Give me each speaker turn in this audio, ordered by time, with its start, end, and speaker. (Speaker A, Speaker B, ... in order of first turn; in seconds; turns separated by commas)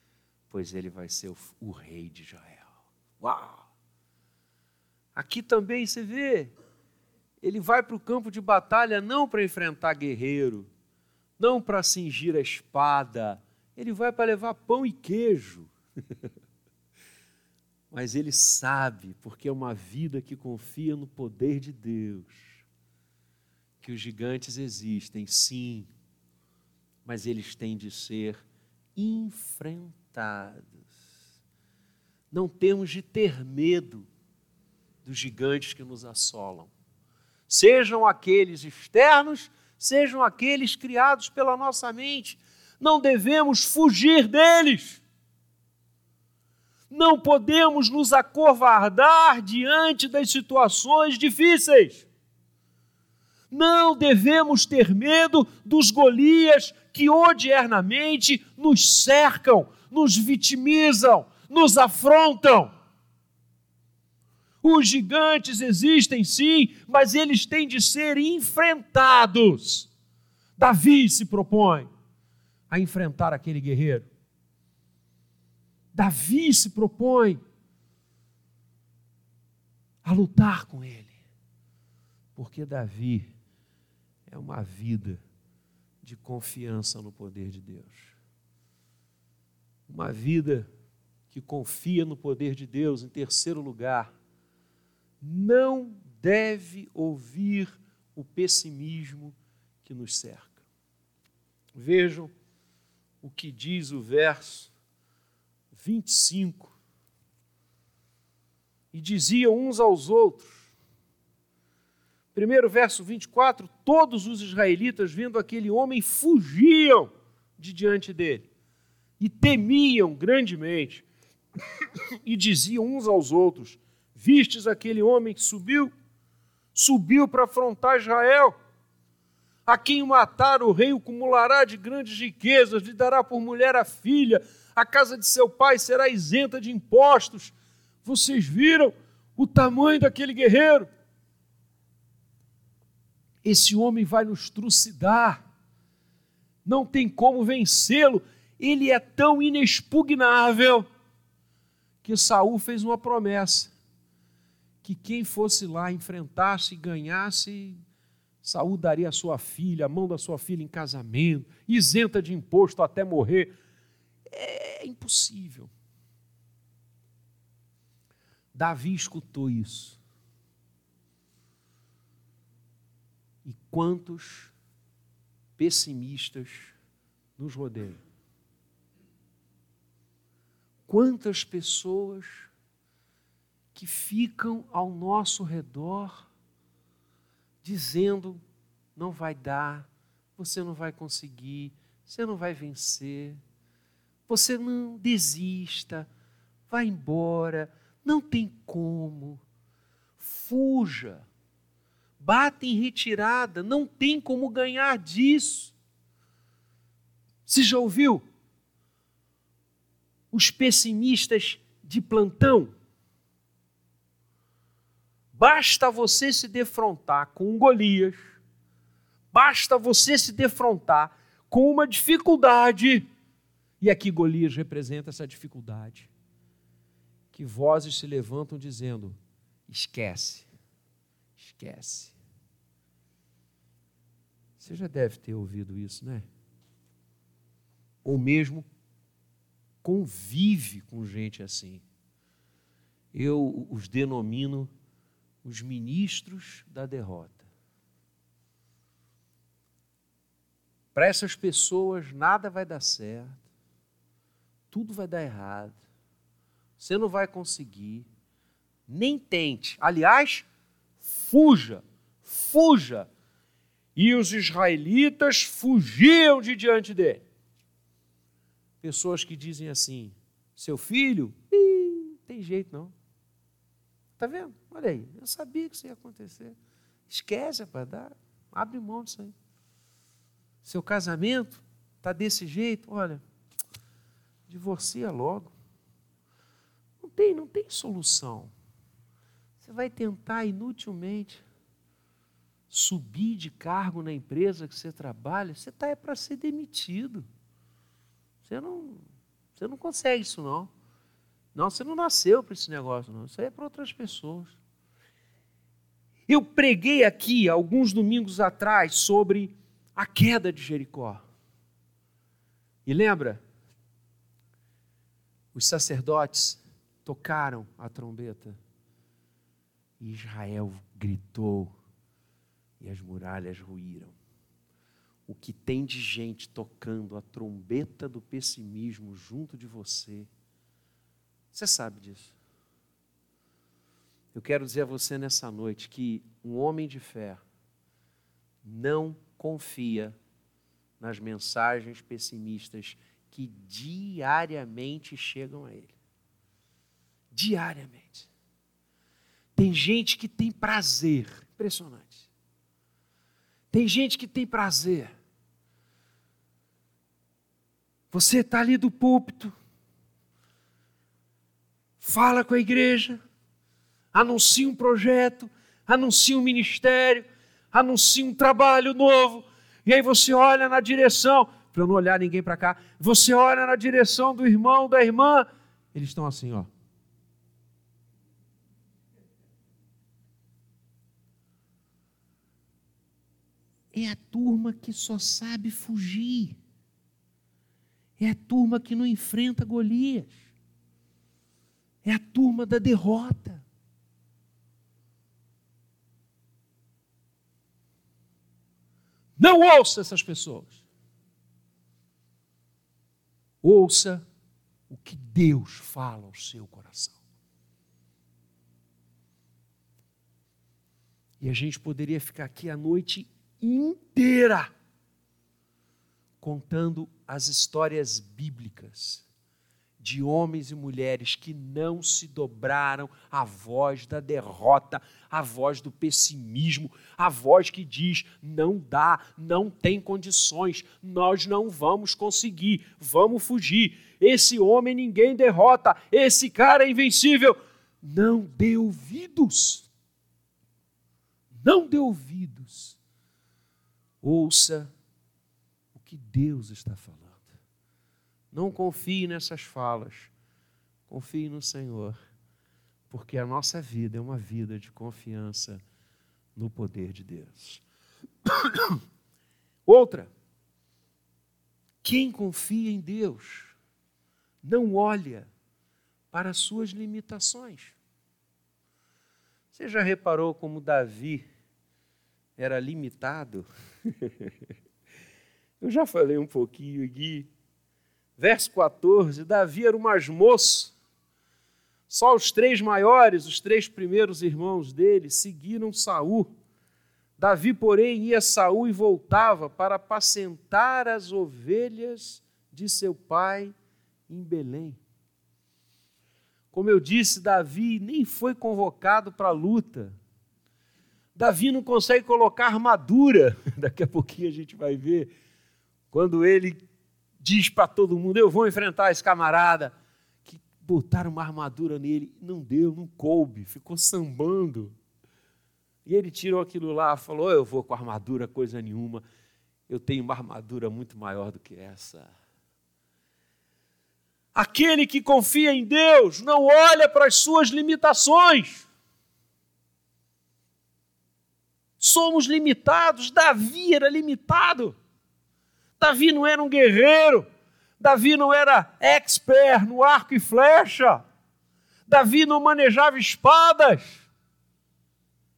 Speaker A: 0.5-3.7, Speaker A: 5.2-6.5, Speaker A: 7.4-10.7, Speaker A: 11.4-15.7, Speaker A: 17.9-22.6, Speaker A: 23.8-25.9, Speaker A: 27.1-28.4, Speaker A: 29.0-30.8, Speaker A: 32.3-34.1, Speaker A: 35.0-36.7, Speaker A: 37.5-45.0, Speaker A: 46.9-52.1, Speaker A: 53.5-62.7, Speaker A: 64.6-69.9, Speaker A: 70.6-71.9, Speaker A: 72.7-74.1, Speaker A: 75.9-77.4, Speaker A: 80.0-81.2, Speaker A: 82.3-83.3, Speaker A: 84.3-85.2, Speaker A: 86.0-88.2, Speaker A: 89.9-90.7, Speaker A: 91.3-94.1, Speaker A: 95.2-100.6, Speaker A: 101.8-102.3, Speaker A: 103.2-104.7, Speaker A: 105.7-106.8, Speaker A: 108.9-110.7, Speaker A: 112.3-118.5, Speaker A: 119.2-121.1, Speaker A: 121.8-125.9, Speaker A: 126.8-128.6, Speaker A: 129.7-140.9, Speaker A: 143.4-145.4, Speaker A: 146.7-150.9, Speaker A: 152.0-153.7, Speaker A: 154.8-157.8, Speaker A: 158.4-163.5, Speaker A: 164.3-165.7, Speaker A: 168.5-170.0, Speaker A: 173.4-174.5, Speaker A: 175.6-176.7, Speaker A: 177.4-178.0, Speaker A: 180.9-182.5, Speaker A: 183.7-186.3, Speaker A: 187.6-188.4, Speaker A: 189.0-193.4, Speaker A: 194.3-196.1, Speaker A: 196.7-199.4, Speaker A: 200.2-201.3, Speaker A: 202.2-205.8, Speaker A: 207.5-208.2, Speaker A: 210.3-212.7, Speaker A: 215.3-218.4, Speaker A: 219.3-223.1, Speaker A: 223.8-226.1, Speaker A: 227.3-230.5, Speaker A: 231.4-232.2, Speaker A: 234.6-236.3, Speaker A: 238.0-238.7, Speaker A: 239.8-241.8, Speaker A: 243.1-244.7, Speaker A: 245.4-247.5, Speaker A: 250.9-253.4, Speaker A: 254.7-255.8, Speaker A: 256.8-258.1, Speaker A: 258.9-260.5, Speaker A: 261.0-263.1, Speaker A: 264.0-267.2, Speaker A: 268.8-272.9, Speaker A: 274.2-276.6, Speaker A: 277.1-279.3, Speaker A: 280.6-283.2, Speaker A: 284.5-285.5, Speaker A: 287.0-288.5, Speaker A: 289.6-291.4, Speaker A: 292.7-297.3, Speaker A: 298.4-299.0, Speaker A: 299.6-300.7, Speaker A: 301.6-304.6, Speaker A: 306.3-311.2, Speaker A: 312.9-313.4, Speaker A: 315.5-318.6, Speaker A: 320.0-321.8, Speaker A: 322.8-324.1, Speaker A: 325.3-330.3, Speaker A: 331.5-332.3, Speaker A: 334.3-337.4, Speaker A: 338.6-340.2, Speaker A: 341.0-345.9, Speaker A: 347.3-348.3, Speaker A: 349.6-352.3, Speaker A: 353.7-355.1, Speaker A: 358.1-359.6, Speaker A: 362.0-363.2, Speaker A: 364.1-376.7, Speaker A: 383.9-386.6, Speaker A: 388.2-390.4, Speaker A: 392.0-393.6, Speaker A: 399.4-400.8, Speaker A: 403.6-404.2, Speaker A: 404.9-407.2, Speaker A: 411.4-414.7, Speaker A: 416.4-419.3, Speaker A: 420.0-439.9, Speaker A: 441.5-443.0, Speaker A: 444.2-444.9, Speaker A: 445.9-447.5, Speaker A: 448.5-450.3, Speaker A: 451.1-452.2, Speaker A: 453.1-455.8, Speaker A: 456.6-457.8, Speaker A: 458.5-459.0, Speaker A: 459.9-460.3, Speaker A: 462.0-463.7, Speaker A: 464.6-465.5, Speaker A: 466.3-468.0, Speaker A: 469.7-471.5, Speaker A: 472.6-474.5, Speaker A: 475.8-477.5, Speaker A: 478.4-480.9, Speaker A: 482.1-486.5, Speaker A: 487.4-493.8, Speaker A: 494.3-495.0, Speaker A: 496.7-500.2, Speaker A: 501.4-505.3, Speaker A: 506.1-506.8, Speaker A: 507.4-509.9, Speaker A: 510.4-514.9, Speaker A: 516.0-519.2, Speaker A: 519.9-522.3, Speaker A: 524.5-528.9, Speaker A: 532.0-535.0, Speaker A: 536.0-537.5, Speaker A: 538.0-541.2, Speaker A: 542.1-544.3